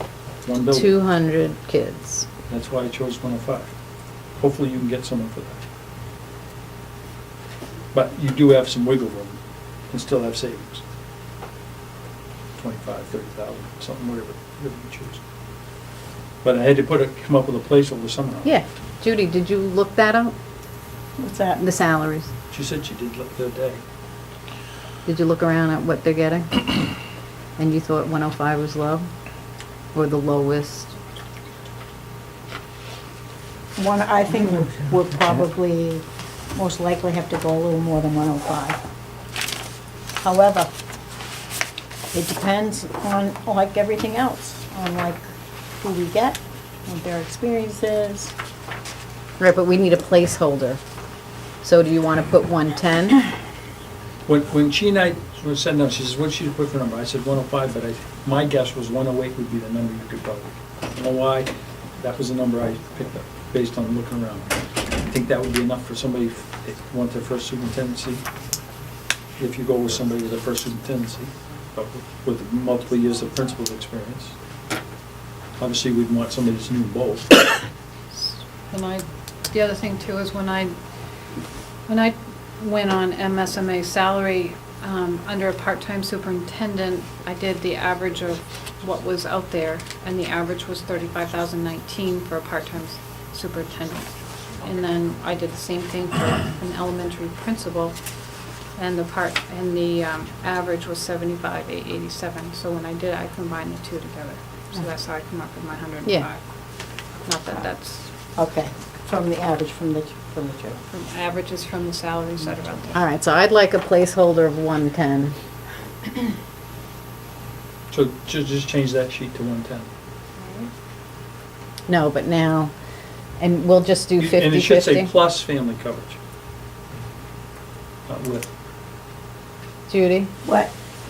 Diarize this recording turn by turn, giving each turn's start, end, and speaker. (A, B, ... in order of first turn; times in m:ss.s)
0:00.4-0:00.9 A
0:00.7-0:02.3 B
0:02.5-0:03.7 A
0:04.4-0:05.6 A
0:07.9-0:09.4 A
0:09.9-0:10.8 A
0:12.6-0:15.2 A
0:16.4-0:18.5 A
0:18.4-0:20.4 B
0:21.2-0:21.6 C
0:21.6-0:22.3 B
0:22.5-0:23.8 A
0:25.0-0:26.8 B
0:27.6-0:29.1 B
0:29.9-0:31.0 B
0:33.8-0:38.8 C
0:40.2-0:40.7 C
0:42.1-0:45.2 C
0:45.8-0:48.3 C
0:49.4-0:50.8 B
0:51.6-0:53.2 B
0:54.3-1:08.3 A
1:09.4-1:14.4 A
1:15.6-1:17.4 A
1:18.1-1:20.8 D
1:21.9-1:48.1 D
1:48.4-1:50.8 C
1:50.9-1:53.0 D
1:52.9-1:55.4 B
1:57.9-1:59.9 A
2:00.4-2:00.7 D
2:01.9-2:02.7 B
2:03.4-2:05.1 B
2:04.2-2:06.2 A
2:08.1-2:08.5 A
2:09.9-2:10.3 B
2:10.4-2:10.7 C